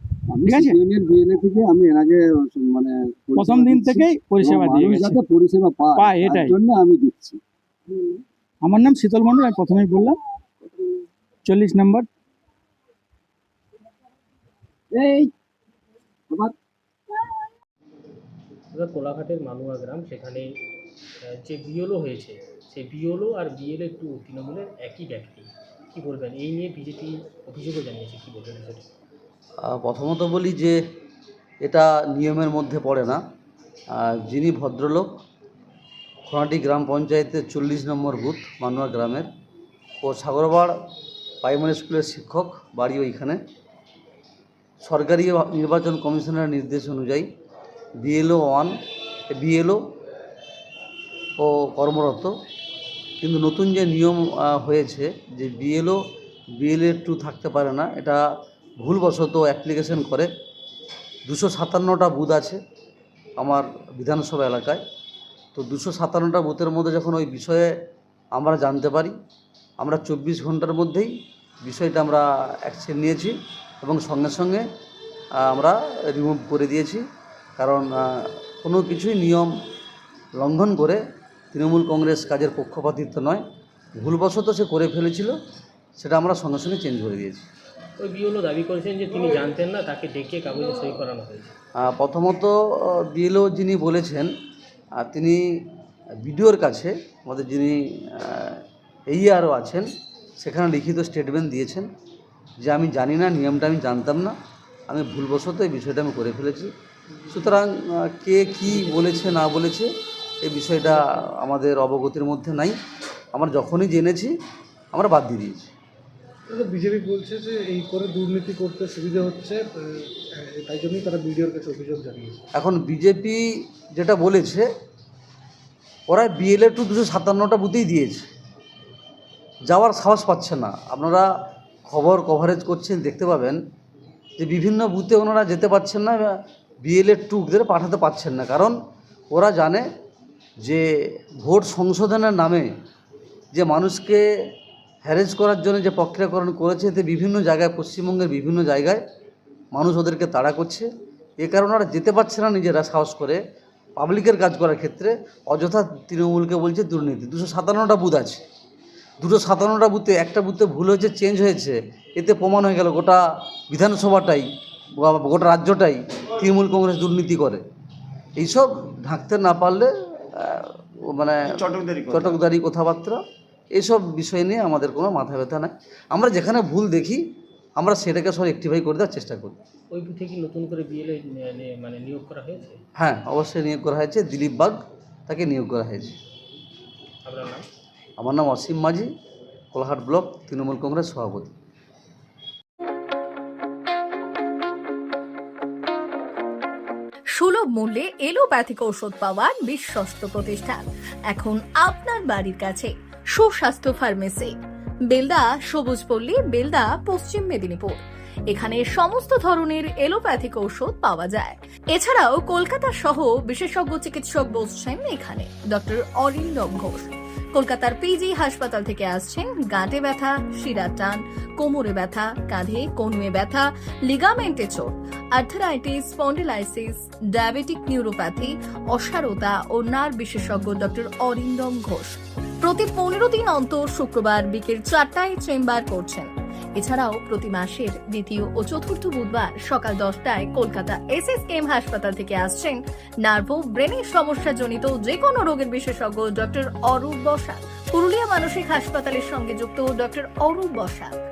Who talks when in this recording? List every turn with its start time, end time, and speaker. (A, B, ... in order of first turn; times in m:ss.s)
0:00.3-0:08.2 A
0:00.4-0:00.8 B
0:03.4-0:05.2 B
0:06.0-0:06.6 B
0:08.6-0:10.2 B
0:11.4-0:12.0 B
0:14.9-0:15.3 A
0:18.7-0:20.5 C
0:21.2-0:28.9 C
0:29.6-0:30.8 D
0:31.6-0:33.2 D
0:33.9-0:35.1 D
0:36.2-0:39.3 D
0:40.0-0:40.7 D
0:41.4-0:43.4 D
0:44.8-0:47.3 D
0:48.0-0:48.7 D
0:49.3-0:49.8 D
0:51.4-0:52.3 D
0:53.2-0:56.0 D
0:56.6-0:58.2 D
0:58.8-1:00.3 D
1:01.2-1:02.6 D
1:03.4-1:04.8 D
1:05.5-1:07.7 D
1:08.3-1:09.1 D
1:09.8-1:11.1 D
1:11.6-1:14.6 D
1:15.4-1:17.0 D
1:17.6-1:19.5 D
1:20.4-1:21.0 D
1:21.5-1:23.4 D
1:24.0-1:25.3 D
1:26.0-1:27.4 D
1:28.0-1:31.5 C
1:31.8-1:34.3 D
1:35.0-1:35.4 D
1:36.2-1:39.8 D
1:40.4-1:41.9 D
1:42.6-1:44.3 D
1:44.9-1:46.7 D
1:47.3-1:49.9 D
1:50.4-1:52.7 D
1:53.3-1:54.3 D
1:54.9-1:55.7 D
1:56.5-2:02.4 E
2:02.5-2:03.4 D
2:03.9-2:04.6 D
2:06.1-2:08.2 D
2:09.7-2:11.2 D
2:11.8-2:13.6 D
2:14.4-2:18.7 D
2:19.3-2:19.8 D
2:21.4-2:22.7 D
2:23.5-2:24.2 D
2:25.0-2:29.0 D
2:29.7-2:30.9 D
2:31.4-2:33.4 D
2:34.0-2:38.4 D
2:39.2-2:44.5 D
2:45.0-2:47.6 D
2:48.4-2:53.2 D
2:53.7-2:57.2 D
2:57.8-2:59.6 D
2:59.9-3:02.8 C
3:03.0-3:06.2 D
3:07.2-3:07.6 C
3:08.2-3:09.1 D
3:09.7-3:11.5 D
3:17.4-3:24.5 F
3:25.1-3:27.9 F
3:28.5-3:44.8 F
3:45.4-3:52.1 F
3:52.6-3:56.2 F
3:56.8-4:02.7 F
4:03.2-4:11.1 F